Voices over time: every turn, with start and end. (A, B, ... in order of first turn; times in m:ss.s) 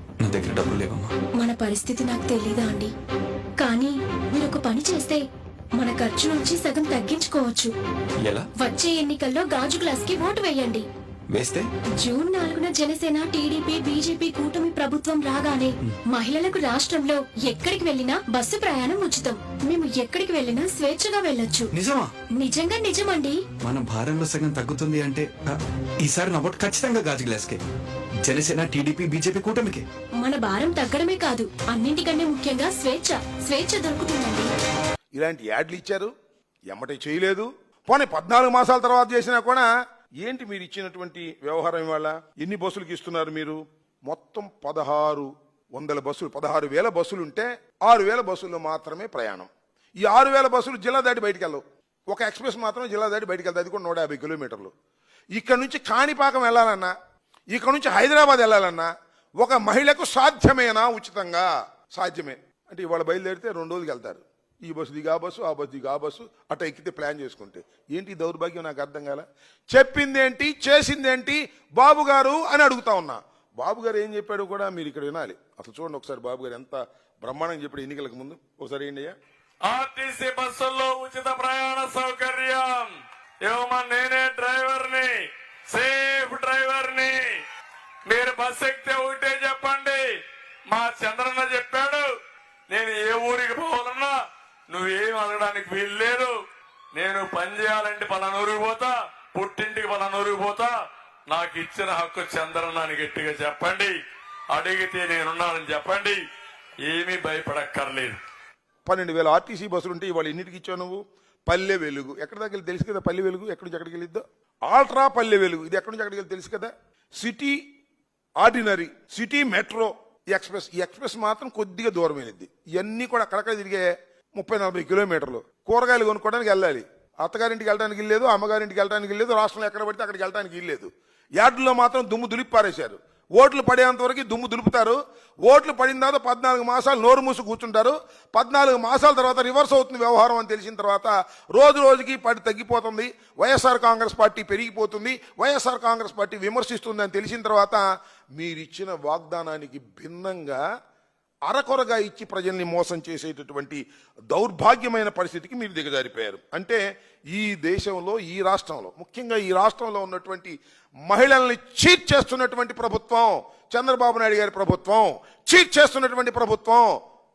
0:00.2-0:01.1 A
0:01.4-0:02.9 B
0:03.6-0:05.2 B
0:05.8-0:07.7 B
0:08.6-0:10.8 B
0:11.3-0:11.6 A
0:12.0-0:21.7 B
0:21.7-0:22.1 A
0:22.4-0:23.4 B
0:23.6-0:27.6 A
0:28.2-0:29.8 A
0:30.2-0:34.5 B
0:35.1-0:36.1 C
0:36.7-0:39.7 C
0:40.2-0:49.5 C
0:50.0-0:54.7 C
0:55.3-0:56.9 C
0:57.5-1:19.1 C
1:19.7-1:22.9 D
1:23.4-1:25.2 D
1:25.7-1:27.4 D
1:28.1-1:30.1 D
1:30.7-1:32.1 D
1:32.7-1:34.1 D
1:34.7-1:36.3 D
1:36.9-1:40.7 D
1:41.3-1:43.9 D
1:44.5-1:46.2 D
1:46.8-1:48.2 D
1:48.8-1:57.6 C
1:58.4-2:27.8 C
2:28.3-2:30.6 C
2:31.4-2:47.0 C